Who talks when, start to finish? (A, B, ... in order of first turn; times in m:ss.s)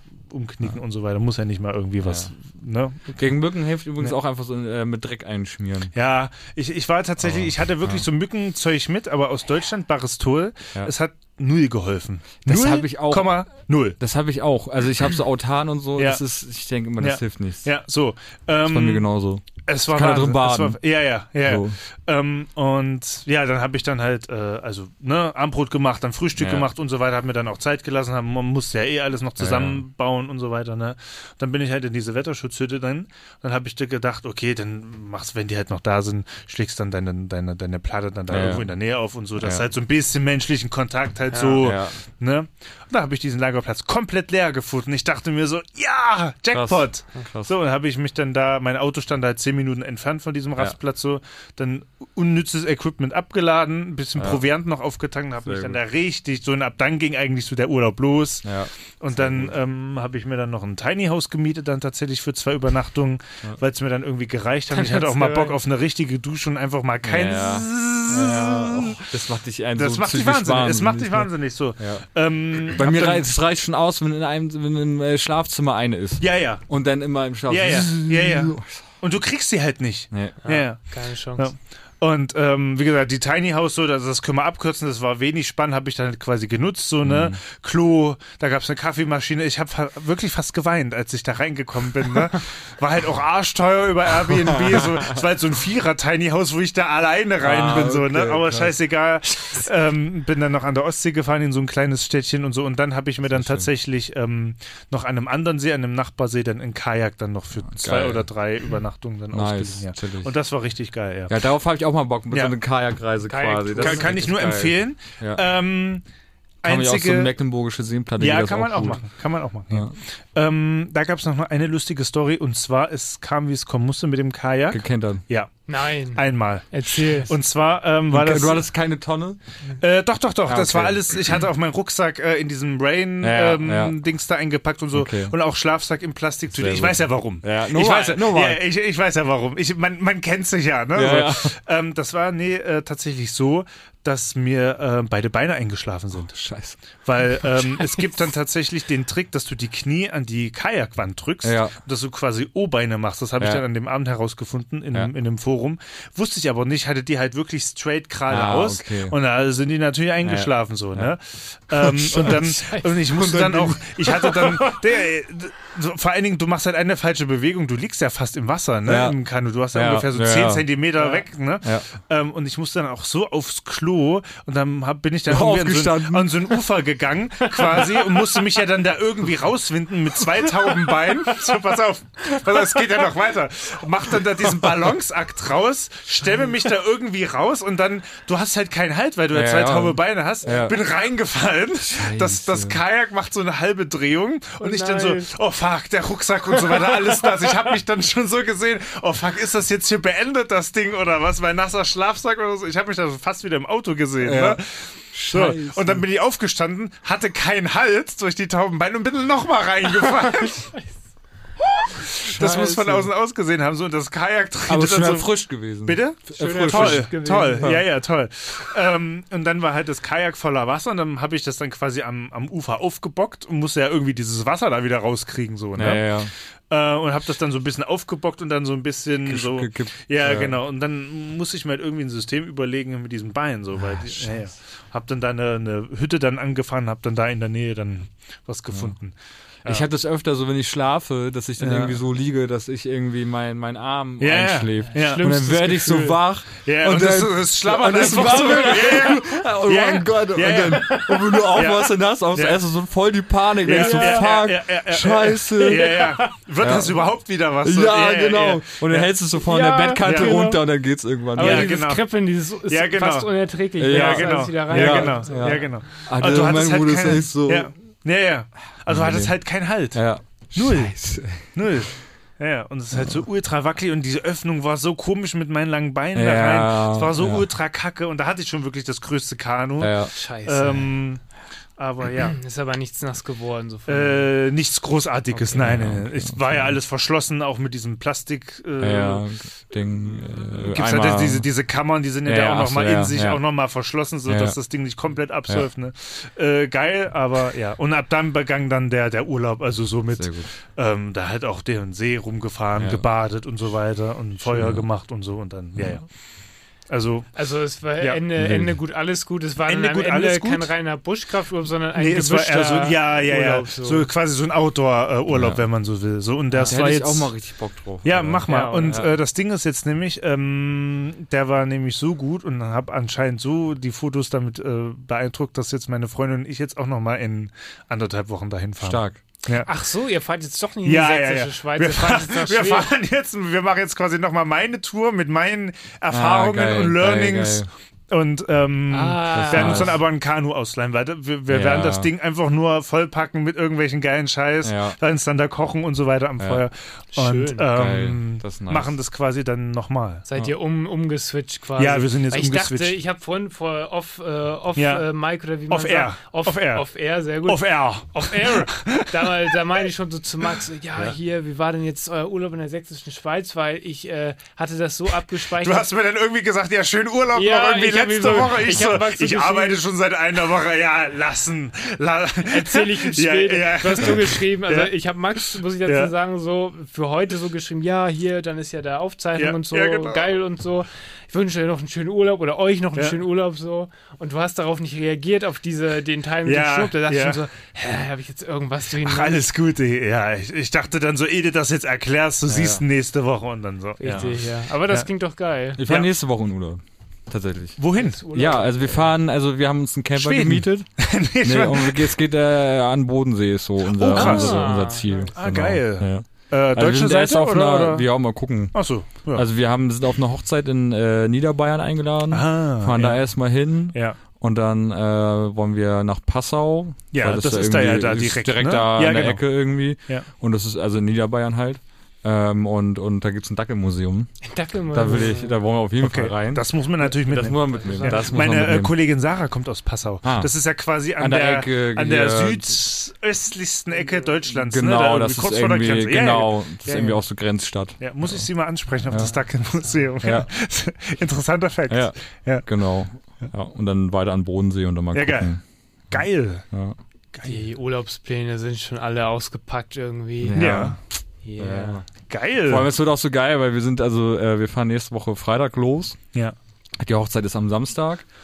0:00.3-0:03.3 A
0:02.0-0:02.3 B
0:03.1-0:05.9 B
0:05.9-0:14.0 A
0:07.2-0:08.0 B
0:12.4-0:13.4 B
0:14.0-0:17.7 B
0:16.0-0:16.2 A
0:17.0-0:19.0 A
0:18.6-0:20.8 B
0:19.7-1:09.1 A
0:21.4-0:21.8 B
0:26.4-0:26.7 B
0:29.4-0:29.8 B
0:38.3-0:38.7 B
0:39.4-0:39.6 B
0:41.3-0:41.6 C
0:41.6-0:42.0 B
0:46.5-0:47.5 B
0:54.2-0:54.4 B
0:55.4-0:55.8 B
0:58.4-0:59.5 B
1:04.7-1:05.6 C
1:07.0-1:12.0 B
1:09.8-1:13.3 A
1:12.7-1:18.8 B
1:16.2-1:16.6 A
1:17.5-1:51.4 A
1:20.1-1:20.4 B
1:20.4-1:21.5 C
1:27.0-1:27.4 B
1:34.7-1:35.0 B
1:37.4-1:38.7 B
1:43.3-1:43.7 B
1:47.7-1:48.3 B
1:49.3-1:50.3 B
1:51.3-1:55.4 B
1:52.3-1:52.5 A
1:53.3-1:54.3 C
1:53.8-1:56.0 A
1:56.6-1:57.3 A
1:56.6-1:59.0 B
1:58.2-2:08.6 A
2:04.7-2:05.2 B
2:05.7-2:07.3 C
2:08.1-2:09.4 B
2:09.8-2:26.4 A
2:10.5-2:11.0 B
2:13.2-2:14.0 B
2:14.9-2:15.3 B
2:16.5-2:18.6 B
2:20.9-2:21.5 B
2:26.3-2:26.8 B
2:27.0-3:30.7 A
2:31.4-2:31.8 B
2:38.3-2:39.2 B
2:40.2-2:41.1 B
2:41.7-2:42.4 B
2:42.5-2:42.9 C
2:43.1-2:44.1 B
2:48.8-2:49.2 B
2:49.7-2:50.7 B
2:55.3-2:56.4 B
3:09.3-3:10.8 B
3:11.9-3:12.8 B
3:14.6-3:15.3 C
3:16.6-3:17.5 C
3:24.2-3:24.6 B
3:25.1-3:26.0 B
3:31.8-3:59.9 A
3:32.3-3:32.9 B
3:32.4-3:33.0 C
3:34.7-3:37.8 B
3:36.3-3:37.7 C
3:45.8-3:46.3 B
3:49.2-3:50.6 B
3:53.8-3:54.4 B
3:59.6-4:16.1 B
4:01.6-4:01.9 A
4:04.2-4:05.2 A
4:04.9-4:06.2 C
4:06.6-4:12.6 A
4:10.8-4:11.1 C
4:13.6-4:19.1 A
4:13.7-4:14.3 C
4:15.6-4:16.3 C
4:16.6-4:17.0 B
4:17.6-4:21.7 B
4:19.4-4:20.6 C
4:20.0-4:20.4 A
4:21.3-4:25.6 C
4:21.4-4:22.0 A
4:22.7-4:23.3 A
4:23.8-4:27.7 B
4:23.9-4:41.2 A
4:28.9-4:29.3 B
4:29.9-4:31.5 B
4:32.9-4:33.2 B
4:36.1-4:37.4 B
4:39.8-4:40.1 B
4:40.1-4:40.9 C
4:41.8-4:42.4 A
4:42.2-4:44.3 C
4:43.9-4:49.2 A
4:45.5-4:46.7 B
4:48.8-4:51.5 B
4:50.1-5:06.1 A
4:52.2-4:53.4 B
4:54.3-4:54.6 B
5:00.1-5:00.5 B
5:02.8-5:03.0 B
5:04.4-5:04.8 B
5:05.8-5:06.0 B
5:06.9-5:07.3 A
5:07.3-5:14.1 C
5:08.4-5:08.8 B
5:09.7-5:10.7 A
5:12.0-5:17.4 A
5:15.3-5:15.6 B
5:16.7-5:19.1 B
5:18.0-5:29.7 A
5:18.5-5:19.0 C
5:28.8-5:29.2 B
5:29.6-5:32.9 C
5:30.8-5:50.2 A
5:36.1-5:37.7 B
5:38.9-5:40.0 C
5:39.3-5:40.0 B
5:41.5-5:42.1 B
5:44.6-5:45.0 B
5:46.4-5:46.6 B
5:47.1-5:47.7 C
5:47.7-5:48.9 B
5:50.2-6:05.9 C
5:51.8-5:53.0 A
5:54.8-5:55.0 A
5:55.7-5:56.8 A
5:57.4-5:59.3 A
6:05.6-6:16.1 A
6:07.3-6:09.8 C
6:12.5-6:29.4 C
6:19.4-6:20.3 A
6:26.4-6:27.4 A
6:29.0-6:35.0 A
6:32.5-6:32.8 B
6:34.0-6:35.8 C
6:35.8-6:40.9 B
6:37.8-6:38.2 A
6:37.9-6:39.1 C
6:40.1-6:42.1 A
6:41.4-6:48.8 B
6:43.9-6:48.1 A
6:44.1-6:45.3 C
6:48.7-6:49.5 A
6:49.3-7:04.3 B
6:52.3-6:53.2 A
6:53.9-6:54.2 A
6:57.1-6:59.5 A
7:04.4-7:05.6 C
7:04.9-7:08.9 B
7:06.0-7:17.2 A
7:07.7-7:08.3 C
7:10.2-7:10.5 B
7:11.2-7:12.8 B
7:14.5-7:18.4 B
7:18.0-7:22.7 A
7:20.2-7:20.5 B
7:21.9-7:25.6 B
7:25.1-7:25.5 A
7:26.1-7:26.6 A
7:26.1-7:27.0 B
7:27.3-7:27.6 A
7:27.4-7:30.8 C
7:30.4-7:31.0 B
7:30.6-7:31.0 A
7:31.4-7:32.0 C
7:31.6-7:32.0 B
7:32.3-7:32.9 A
7:32.6-7:36.2 B
7:37.0-7:38.2 B